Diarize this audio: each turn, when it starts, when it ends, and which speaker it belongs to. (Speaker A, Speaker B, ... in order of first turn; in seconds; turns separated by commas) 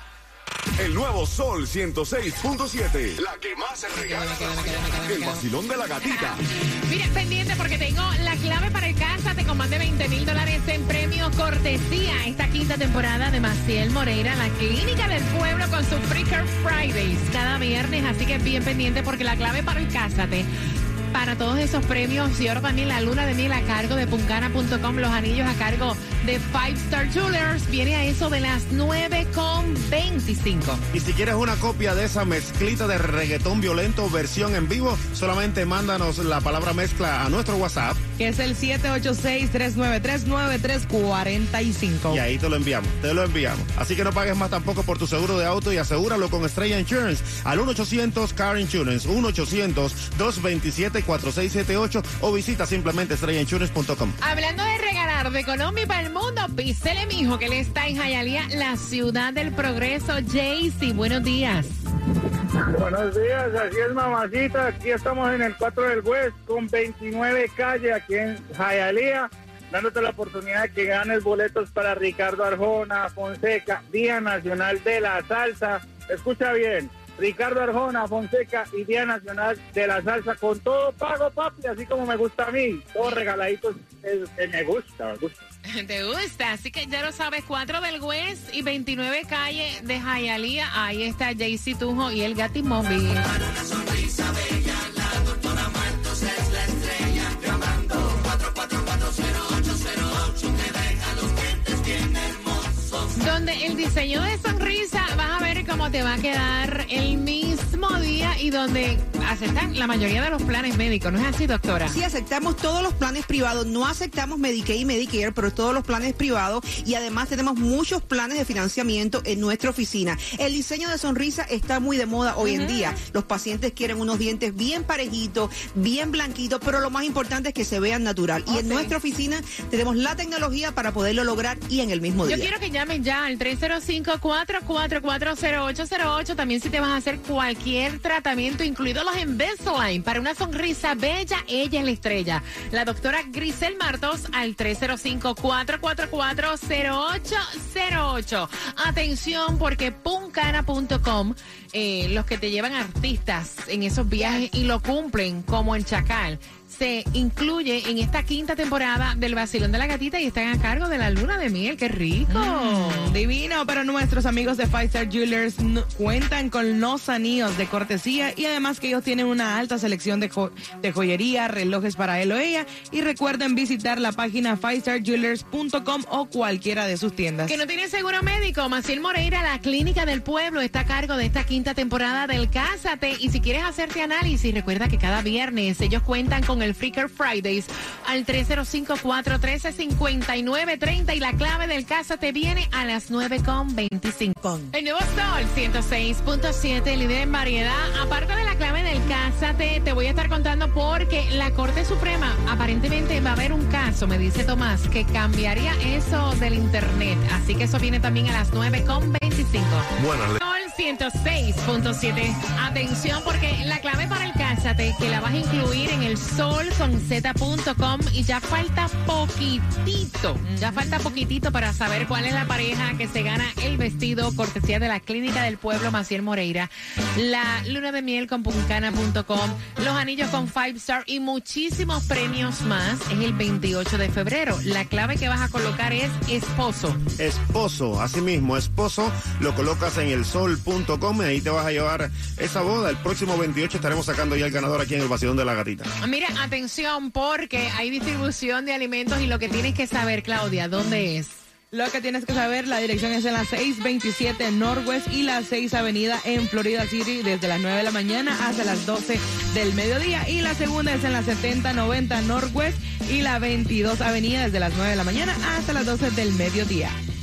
Speaker A: 0.8-6.4, Speaker B: 3.9-5.5, Speaker B: 6.0-20.5, Speaker B: 21.1-30.8, Speaker C: 30.9-38.0, Speaker D: 38.2-42.2, Speaker C: 42.1-54.2, Speaker B: 54.2-61.8, Speaker E: 62.7-85.4, Speaker B: 85.7-93.3, Speaker B: 103.2-112.0, Speaker F: 111.8-132.5, Speaker B: 122.4-122.9, Speaker B: 128.5-128.9, Speaker B: 132.2-163.2, Speaker D: 162.3-177.6, Speaker B: 177.5-237.0, Speaker A: 210.0-210.4, Speaker D: 220.4-221.1, Speaker C: 237.2-245.9, Speaker B: 246.0-251.4, Speaker D: 251.7-267.0